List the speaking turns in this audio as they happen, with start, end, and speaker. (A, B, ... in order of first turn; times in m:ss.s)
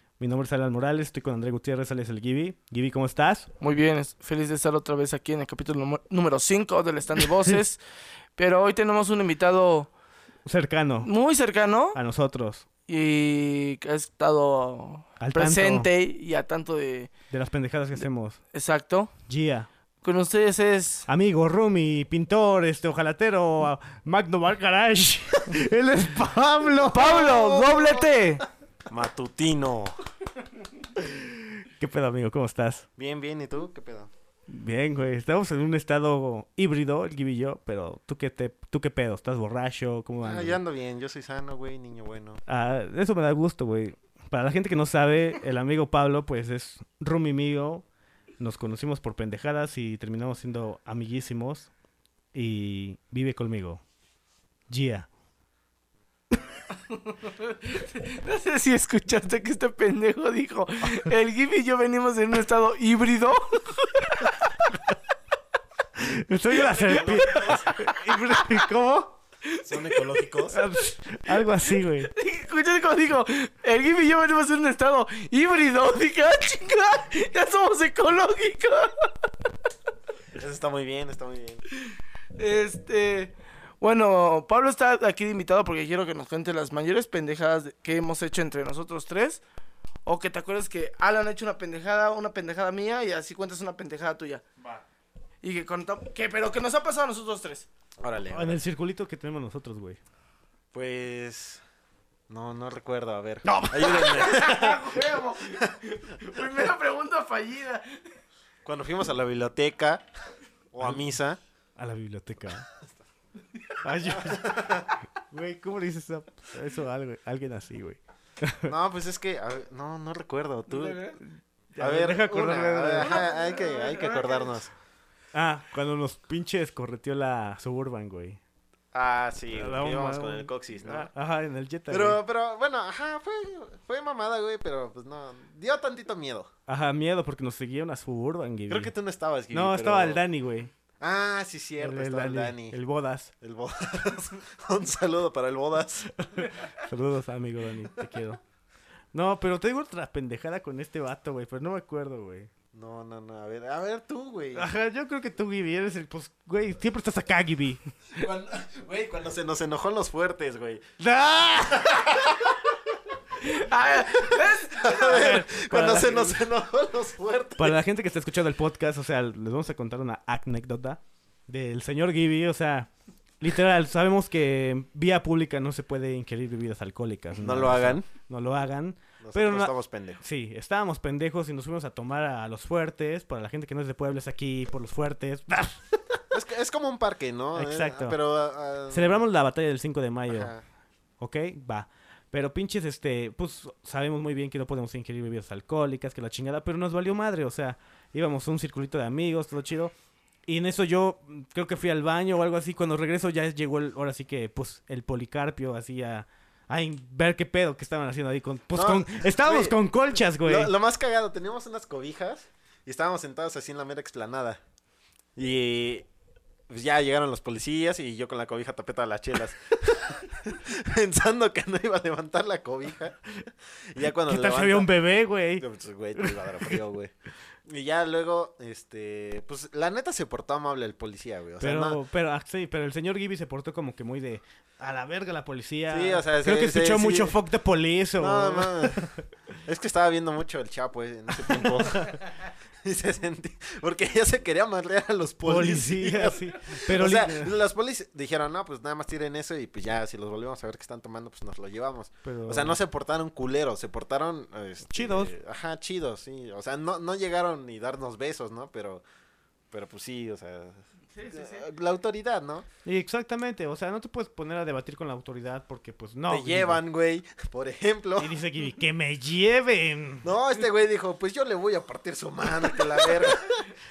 0:00.2-0:03.5 A
0:03.6-0:07.8 B
0:08.4-0:09.9 B
0:10.4-0:11.1 A
0:11.0-0:12.0 B
0:11.9-0:12.6 A
0:12.9-0:17.1 B
0:15.2-0:15.9 A
0:17.3-0:18.4 A
0:18.5-0:19.1 B
0:19.3-0:19.7 A
0:20.0-0:21.1 B
0:21.1-0:27.2 A
0:26.9-0:28.4 B
0:27.0-0:28.1 C
0:28.9-0:29.9 C
0:31.0-0:32.8 A
0:33.0-0:34.1 C
0:34.5-0:40.6 A
0:40.2-0:42.4 C
0:42.5-0:47.8 A
0:48.4-0:51.7 A
0:52.3-0:53.8 A
0:54.7-0:55.1 A
0:56.9-1:04.5 B
1:06.0-1:09.2 A
1:06.5-1:07.9 C
1:06.8-1:08.6 B
1:09.5-1:19.1 B
1:09.6-1:10.6 C
1:10.5-1:12.1 A
1:20.3-1:21.6 C
1:22.4-1:29.4 B
1:30.0-1:34.4 B
1:35.4-1:37.7 B
1:38.0-1:38.6 C
1:38.3-1:40.0 A
1:40.7-1:41.6 C
1:42.3-1:45.7 C
1:43.4-1:44.2 A
1:44.0-1:48.0 B
1:48.6-1:50.0 C
1:50.7-1:51.4 C
1:50.8-1:51.1 A
1:51.8-1:52.6 A
1:53.8-1:58.7 A
1:54.1-1:55.0 C
1:58.6-2:01.2 C
2:00.7-2:01.2 B
2:01.2-2:03.2 A
2:01.8-2:04.7 C
2:03.0-2:04.5 B
2:05.3-2:08.4 A
2:08.9-2:11.1 C
2:09.5-2:12.2 A
2:11.9-2:16.5 C
2:16.7-2:18.9 A
2:18.7-2:20.2 C
2:19.5-2:20.7 A
2:21.0-2:22.8 C
2:21.8-2:23.3 A
2:23.4-2:26.1 C
2:26.2-2:28.4 A
2:29.1-2:32.5 A
2:32.7-2:34.7 C
2:34.6-2:37.8 A
2:38.1-2:40.9 C
2:41.0-2:42.0 A
2:41.5-2:42.7 C
2:43.4-2:45.3 B
2:44.2-2:47.8 C
2:44.8-2:46.4 A
2:47.6-3:06.2 A
2:57.4-2:58.1 C
2:59.2-3:00.2 C
3:06.3-3:09.2 C
3:07.5-3:08.2 A
3:08.9-3:10.5 A
3:10.3-3:10.6 C
3:11.2-3:19.9 A
3:20.5-3:30.7 A
3:28.7-3:29.8 C
3:30.4-3:34.6 C
3:35.4-3:36.0 C
3:36.7-3:43.2 C
3:43.8-3:44.9 C
3:44.3-3:45.6 A
3:45.6-3:47.1 C
3:46.2-3:46.8 A
3:47.6-3:52.0 C
3:51.6-3:59.2 A
3:55.9-3:57.4 C
3:58.2-3:59.1 C
3:59.6-4:02.2 C
4:01.4-4:02.2 A
4:02.8-4:19.0 C
4:05.4-4:07.5 A
4:12.2-4:12.8 A
4:14.9-4:15.3 A
4:19.7-4:22.6 C
4:21.1-4:21.6 B
4:22.8-4:26.8 A
4:26.3-4:28.4 C
4:28.2-4:30.2 A
4:30.2-4:33.7 C